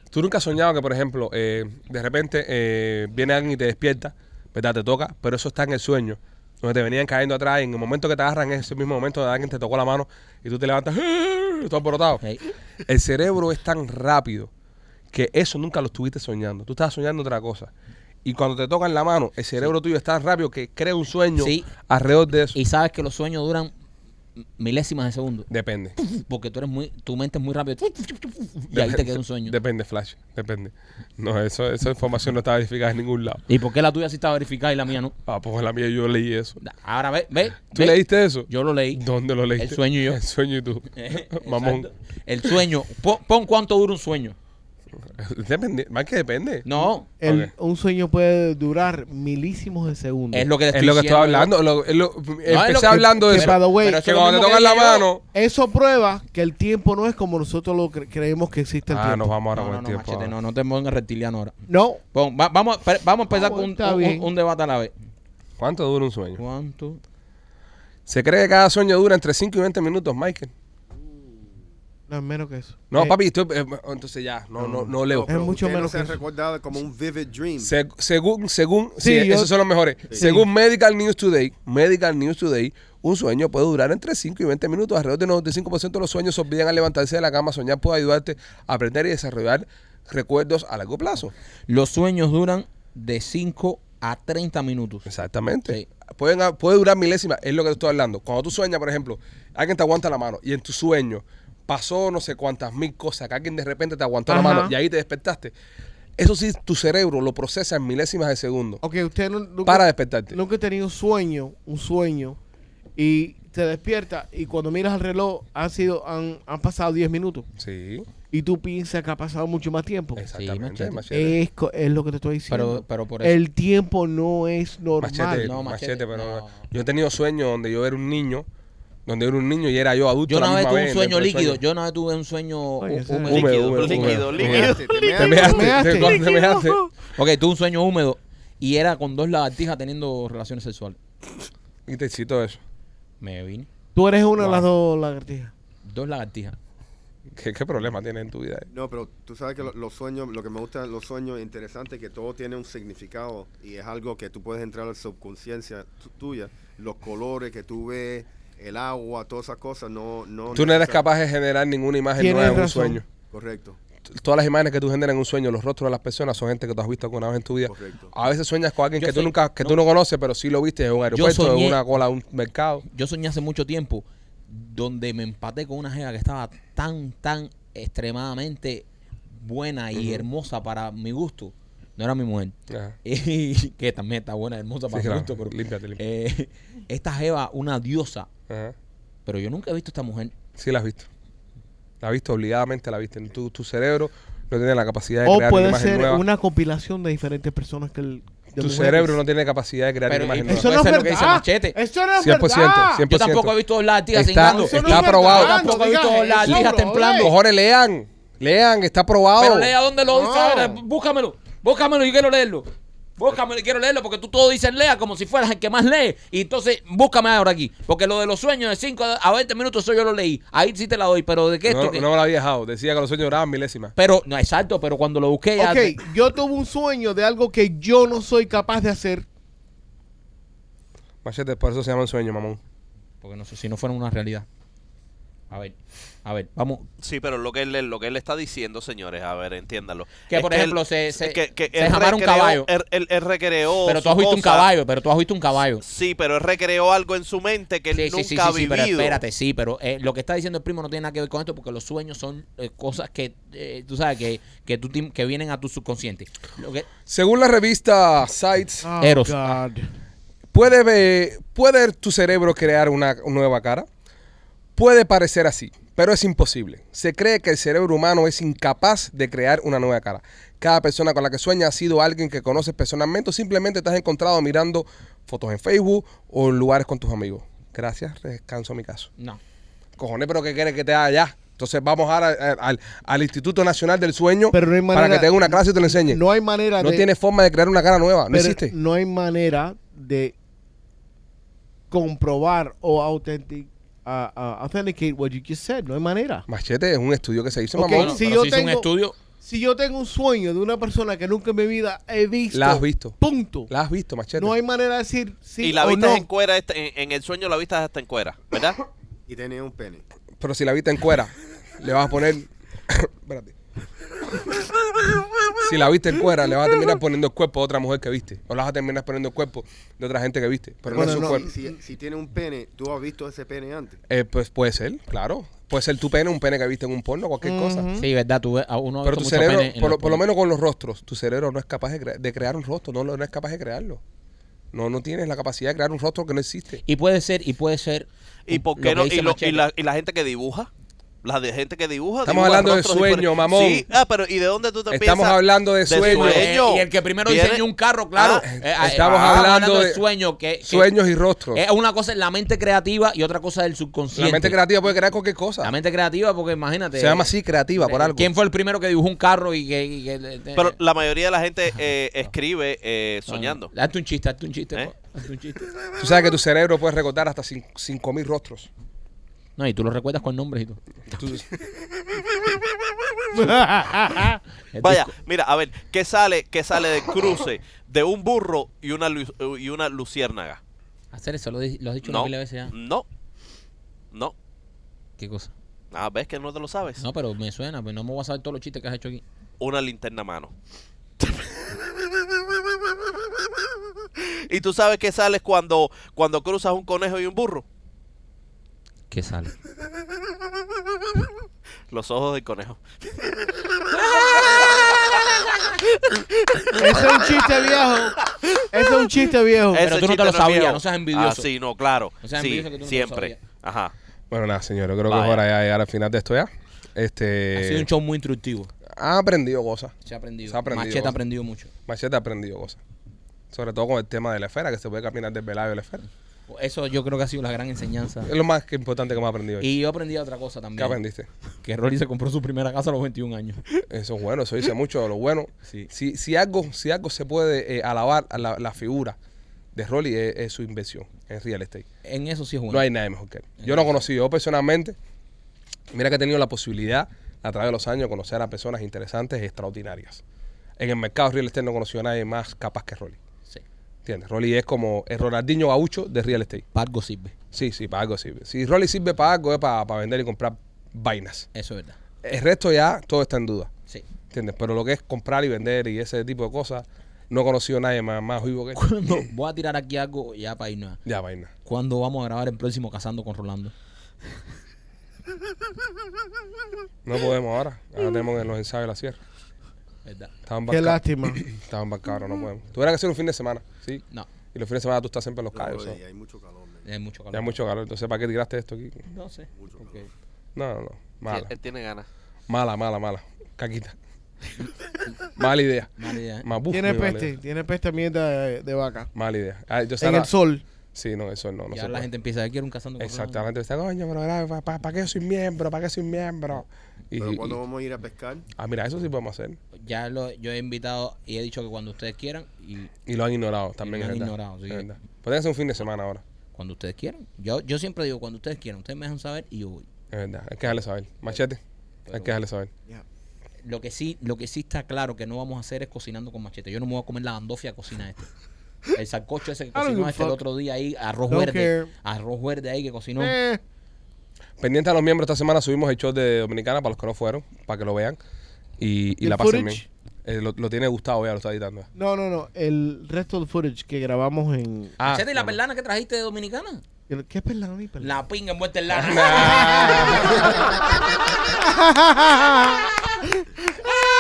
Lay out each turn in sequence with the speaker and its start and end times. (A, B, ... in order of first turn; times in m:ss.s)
0:00.1-0:12.2 A
0:12.8-0:14.5 A
0:15.1-0:17.7 A
0:18.2-0:22.6 A
0:21.4-0:21.7 B
0:22.5-0:23.7 B
0:24.6-0:29.6 B
0:25.5-0:26.0 A
0:28.7-0:33.4 A
0:33.5-0:35.1 B
0:35.3-0:36.6 A
0:36.6-0:39.0 B
0:37.7-0:41.9 A
0:39.6-0:40.2 B
0:40.9-0:44.4 B
0:45.1-0:46.7 A
0:46.6-0:47.1 B
0:47.2-0:50.5 C
0:47.2-0:47.5 A
0:50.3-0:51.5 B
0:50.7-0:55.2 A
0:52.5-0:55.1 B
0:53.2-0:54.0 C
0:55.3-0:59.3 C
0:58.9-1:00.3 A
0:59.5-1:01.5 B
1:01.7-1:02.0 C
1:02.1-1:04.9 B
1:03.3-1:04.3 C
1:05.6-1:06.4 A
1:06.4-1:07.0 B
1:08.1-1:10.5 A
1:10.9-1:11.5 D
1:12.1-1:13.2 C
1:12.9-1:15.3 A
1:14.6-1:16.2 C
1:15.0-1:17.7 D
1:17.6-1:31.3 A
1:19.0-1:19.5 C
1:20.1-1:20.5 C
1:31.7-1:35.1 B
1:35.1-1:45.5 A
1:44.3-1:44.7 C
1:46.2-1:48.8 A
1:48.8-1:52.4 C
1:49.6-1:50.4 A
1:53.0-1:57.5 C
1:57.6-1:58.1 A
1:58.3-2:00.3 C
2:00.2-2:01.4 A
2:00.3-2:01.0 B
2:01.1-2:05.5 C
2:02.5-2:03.4 B
2:05.0-2:08.5 A
2:05.3-2:06.7 B
2:09.1-2:11.6 A
2:10.3-2:14.2 B
2:12.8-2:16.2 C
2:13.2-2:16.8 A
2:13.3-2:16.9 E
2:14.2-2:15.7 D
2:17.1-2:21.0 B
2:21.9-2:22.6 A
2:23.2-2:23.7 B
2:24.0-2:25.5 C
2:24.4-2:24.7 A
2:25.8-2:26.6 B
2:27.3-2:28.7 A
2:28.7-2:41.0 D
2:40.5-2:43.0 A
2:42.2-2:43.0 C
2:43.2-2:43.8 D
2:44.1-2:52.8 A
2:47.6-2:48.1 D
2:49.0-2:49.8 B
2:51.1-2:51.8 B
2:52.9-3:08.3 B
2:59.9-3:00.3 A
3:02.7-3:03.0 A
3:04.9-3:06.0 A
3:08.5-3:08.8 A
3:09.3-3:10.3 B
3:10.6-3:11.1 A
3:12.0-3:16.2 A
3:15.2-3:19.2 C
3:18.6-3:20.7 A
3:20.1-3:21.8 B
3:20.4-3:23.1 C
3:22.2-3:23.5 A
3:23.0-3:27.3 B
3:24.1-3:25.7 A
3:24.4-3:27.3 C
3:26.4-3:29.7 A
3:29.4-3:42.1 B
3:30.1-3:30.8 C
3:41.7-3:43.9 A
3:44.0-3:46.0 B
3:45.6-3:49.3 C
3:51.2-3:52.6 A
3:53.2-3:54.5 B
3:55.5-3:56.9 B
3:57.0-4:04.7 E
4:00.3-4:02.7 B
4:03.9-4:05.8 B
4:05.8-4:09.2 E
4:07.9-4:16.9 B
4:17.1-4:18.9 A
4:18.8-4:19.9 C
4:19.0-4:19.6 B
4:20.5-4:23.9 A
4:24.8-4:39.1 A
4:40.0-4:46.2 A
4:44.5-4:47.0 C
4:46.8-4:48.7 A
4:48.3-4:50.4 C
4:51.9-4:56.5 C
4:56.5-4:58.2 A
4:57.8-4:58.9 C
4:57.9-4:59.2 B
4:59.4-5:03.7 C
5:02.5-5:04.6 A
5:04.4-5:06.3 C
5:05.6-5:08.8 E
5:09.3-5:10.0 D
5:10.4-5:13.5 A
5:15.6-5:21.5 A
5:20.9-5:24.0 D
5:20.9-5:21.6 C
5:24.1-5:27.9 A
5:27.4-5:28.1 C
5:28.0-5:30.2 B
5:29.0-5:34.0 A
5:34.7-5:36.8 A
5:36.9-5:39.6 B
5:38.5-5:40.7 E
5:41.2-5:47.6 E
5:42.2-5:43.9 A
5:44.9-5:46.5 A
5:46.0-5:50.9 B
5:48.2-5:49.5 E
5:48.5-5:50.0 A
5:50.6-5:51.6 A
5:51.5-5:54.6 B
5:54.1-5:55.7 A
5:55.6-6:00.8 B
5:57.0-5:58.3 A
6:00.6-6:03.7 E
6:03.3-6:05.7 B
6:06.0-6:08.7 A
6:09.6-6:10.8 B
6:11.1-6:11.5 A
6:13.3-6:14.4 C
6:14.7-6:15.1 B
6:14.8-6:20.6 E
6:21.1-6:22.7 B
6:22.0-6:23.1 E
6:25.2-6:25.5 B
6:25.9-6:27.0 E
6:27.0-6:29.2 B
6:29.6-6:30.5 E
6:34.2-6:37.6 E
6:39.1-6:39.5 B
6:41.9-6:43.5 E
6:44.2-6:45.2 E
6:46.1-6:47.4 E
6:46.8-6:49.8 C
6:48.4-6:49.1 E
6:49.7-6:53.9 E
6:49.8-6:51.5 B
6:52.2-6:53.4 B
6:54.3-6:57.9 A
6:55.1-6:55.4 E
6:57.6-6:58.7 B
6:59.0-7:00.0 A
7:00.0-7:01.7 B
7:00.5-7:01.2 A
7:01.9-7:02.8 A
7:03.5-7:06.0 A
7:06.5-7:08.3 B
7:08.2-7:09.7 A
7:09.6-7:11.0 B
7:10.8-7:11.3 A
7:11.6-7:13.6 B
7:13.9-7:19.2 A
7:19.8-7:21.9 A
7:22.0-7:22.9 B
7:22.7-7:25.0 A
7:23.6-7:23.9 B
7:25.9-7:30.2 A
7:30.8-7:33.2 A
7:34.0-7:36.6 A
7:36.7-7:37.4 B
7:37.5-7:41.5 A
7:41.5-7:42.0 B
7:42.2-7:43.7 A
7:44.3-7:49.3 A
7:48.8-7:51.0 B
7:51.0-7:51.5 A
7:51.6-7:53.7 B
7:57.0-7:59.2 A
8:00.0-8:00.3 B
8:00.5-8:04.0 A
8:00.7-8:01.4 C
8:04.5-8:06.0 A
8:05.5-8:06.9 D
8:06.8-8:07.6 B
8:07.3-8:09.0 A
8:09.1-8:10.1 B
8:09.5-8:10.1 D
8:10.6-8:11.5 A
8:11.3-8:12.1 E
8:12.5-8:14.0 A
8:15.4-8:17.3 A
8:16.0-8:16.5 B
8:16.7-8:19.1 C
8:19.1-8:20.3 A
8:20.0-8:20.6 C
8:21.0-8:22.1 A
8:21.7-8:23.4 B
8:23.0-8:27.6 A
8:27.2-8:28.5 D
8:28.6-8:29.6 A
8:29.8-8:32.9 B
8:33.1-8:36.2 A
8:33.8-8:34.9 B
8:36.6-8:39.9 B
8:40.1-8:41.6 A
8:42.1-8:42.4 B
8:42.1-8:42.7 A
8:43.6-8:48.3 B
8:48.9-8:53.4 B
8:49.8-8:50.4 C
8:51.3-8:51.9 C
8:53.2-8:53.6 C
8:54.6-8:58.2 A
8:58.8-9:01.9 A
8:59.2-8:59.9 C
9:02.0-9:05.0 C
9:05.0-9:05.6 A
9:05.0-9:06.8 B
9:07.1-9:08.2 C
9:08.0-9:10.6 B
9:08.9-9:10.7 A
9:09.2-9:10.6 C
9:11.5-9:13.4 C